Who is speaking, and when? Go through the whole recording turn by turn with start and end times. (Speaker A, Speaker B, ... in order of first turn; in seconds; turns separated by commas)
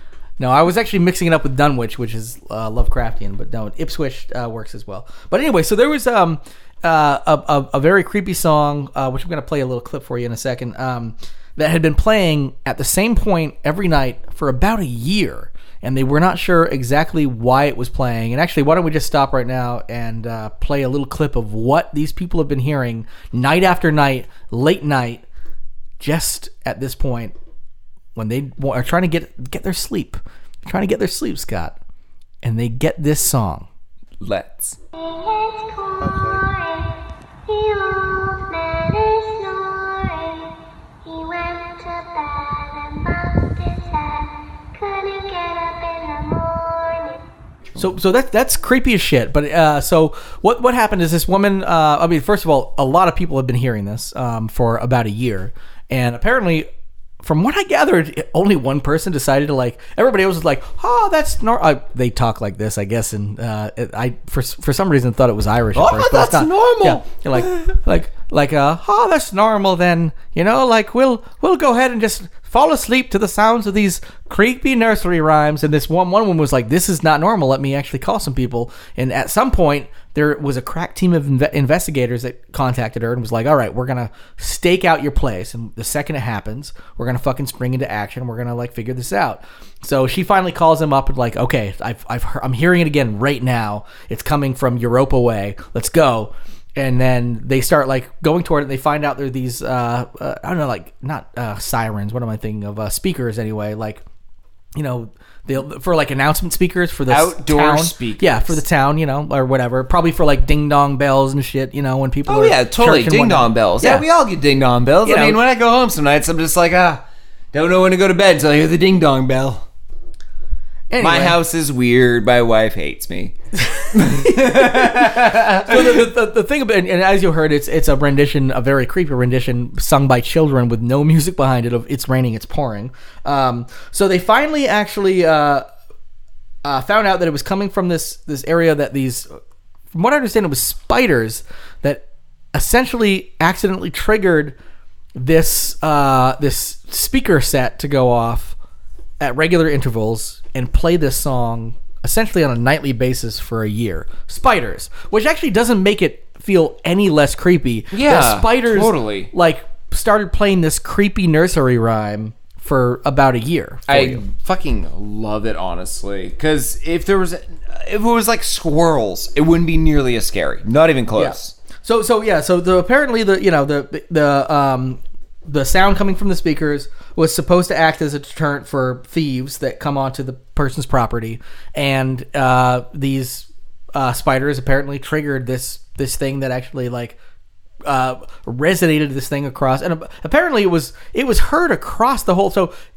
Speaker A: 0.4-25.2, Speaker A: 26.0-27.3, Speaker A: 28.1-31.8, Speaker A: 32.4-33.7, Speaker B: 34.2-34.8, Speaker C: 34.9-47.2, Speaker A: 47.8-56.7, Speaker A: 57.2-104.0, Speaker B: 65.8-67.7, Speaker A: 104.8-114.0, Speaker B: 107.1-108.6, Speaker B: 112.3-119.7, Speaker A: 115.0-115.4, Speaker A: 120.9-121.4, Speaker B: 121.0-123.4, Speaker A: 123.7-135.7, Speaker B: 123.9-126.1, Speaker A: 136.6-139.3, Speaker A: 139.9-142.0, Speaker A: 142.5-144.6, Speaker A: 145.2-148.6, Speaker A: 149.2-164.2, Speaker B: 157.9-159.3, Speaker B: 163.9-171.6, Speaker A: 171.2-187.2, Speaker A: 187.9-192.7